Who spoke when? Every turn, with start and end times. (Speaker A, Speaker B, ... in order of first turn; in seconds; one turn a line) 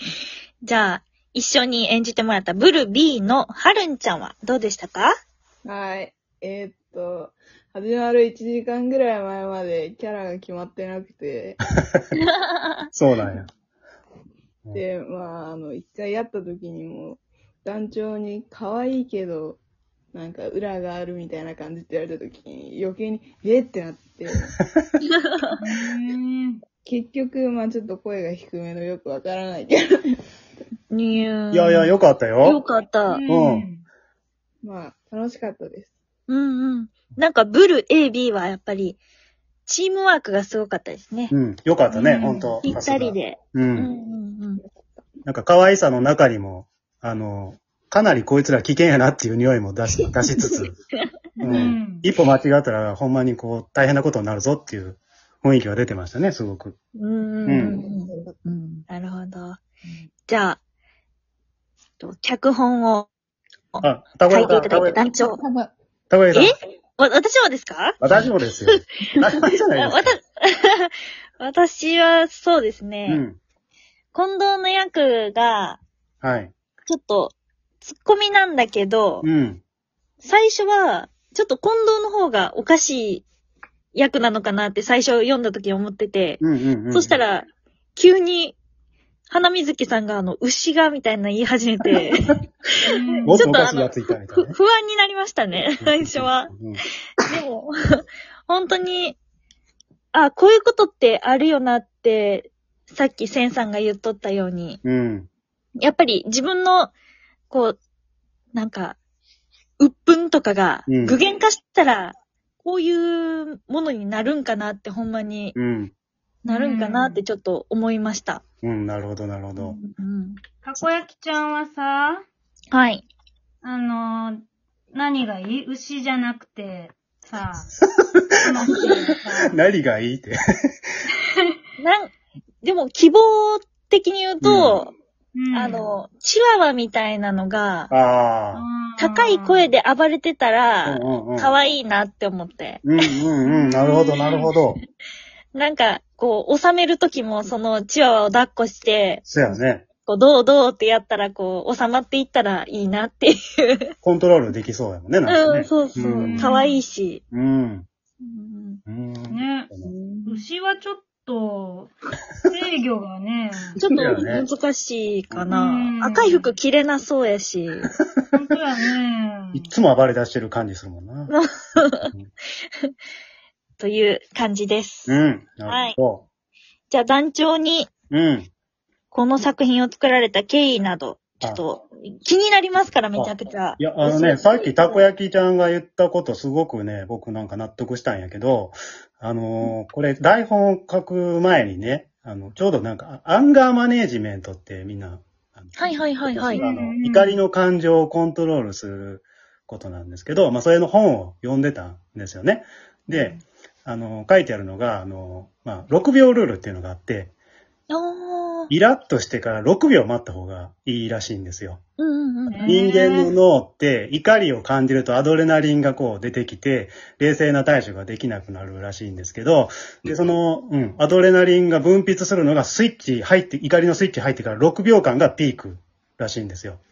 Speaker A: 0.6-5.1
Speaker B: 5.6-11.6
Speaker C: 12.9-13.5
Speaker B: 14.7-19.6
Speaker B: 20.1-24.6
Speaker D: 25.6-26.6
Speaker B: 26.8-30.2
Speaker A: 30.9-31.9
Speaker C: 31.5-32.6
Speaker A: 32.4-33.2
Speaker D: 33.1-33.8
Speaker C: 33.3-33.7
Speaker B: 34.6-35.9
Speaker A: 36.3-39.0
Speaker A: 39.6-41.3
Speaker C: 41.3-43.9
Speaker D: 41.9-42.5
Speaker A: 42.6-44.6
Speaker C: 45.2-50.7
Speaker D: 51.4-52.0
Speaker C: 51.4-56.8
Speaker A: 57.0-58.1
Speaker C: 57.5-57.8
Speaker E: 57.7-58.8
Speaker A: 58.9-59.6
Speaker A: 60.3-60.6
Speaker A: 62.0-63.1
Speaker A: 63.7-65.4
Speaker C: 63.8-65.0
Speaker E: 64.8-65.7
Speaker C: 66.1-66.5
Speaker A: 66.3-68.0
Speaker C: 68.0-70.2
Speaker A: 69.7-73.2
Speaker C: 73.1-73.4
Speaker A: 74.1-75.8
Speaker C: 76.2-76.5
Speaker A: 76.8-79.2
Speaker C: 79.2-79.6
Speaker A: 80.2-83.2
Speaker A: 83.9-88.5
Speaker C: 86.4-87.2
Speaker A: 89.3-92.4
Speaker D: 92.8-93.5
Speaker C: 93.2-94.6
Speaker A: 93.3-96.5
Speaker C: 95.8-96.8
Speaker A: 97.3-97.7
Speaker A: 98.5-99.2
Speaker A: 100.1-104.8
Speaker C: 104.8-105.3
Speaker A: 105.8-106.9
Speaker A: 107.5-107.8
Speaker A: 108.5-109.0
Speaker A: 109.8-115.5
Speaker C: 110.9-111.2
Speaker C: 115.5-115.9
Speaker A: 116.4-118.4
Speaker D: 116.5-117.2
Speaker C: 118.6-119.8
Speaker A: 119.6-120.4
Speaker D: 120.6-122.2
Speaker A: 122.7-123.0
Speaker D: 123.6-127.7
Speaker C: 128.0-128.4
Speaker D: 128.4-129.6
Speaker C: 129.4-130.3
Speaker A: 131.8-134.9
Speaker C: 134.4-134.8
Speaker D: 135.3-135.9
Speaker A: 135.5-137.9
Speaker C: 137.9-138.6
Speaker D: 138.5-139.7
Speaker A: 139.0-142.8
Speaker C: 140.8-141.5
Speaker C: 142.8-144.8
Speaker D: 143.4-144.4
Speaker A: 145.5-153.9
Speaker C: 149.2-149.8
Speaker C: 154.0-156.5
Speaker A: 155.3-157.2
Speaker D: 156.1-156.8
Speaker C: 157.3-157.8
Speaker A: 158.2-158.8
Speaker C: 158.8-159.9
Speaker D: 159.3-159.7
Speaker E: 159.8-160.5
Speaker D: 160.2-163.8
Speaker A: 163.8-167.9
Speaker C: 163.9-164.4
Speaker D: 165.5-166.5
Speaker D: 168.3-169.7
Speaker C: 169.5-171.3
Speaker A: 171.3-172.1
Speaker A: 173.8-176.0
Speaker C: 175.1-176.2
Speaker A: 176.9-177.9
Speaker C: 178.1-178.5
Speaker A: 179.1-185.1
Speaker C: 183.1-207.3
Speaker A: 195.8-196.6
Speaker D: 196.5-197.4
Speaker A: 207.9-208.7
Speaker C: 208.7-211.8
Speaker A: 212.0-212.8
Speaker D: 212.5-213.3
Speaker C: 212.7-226.8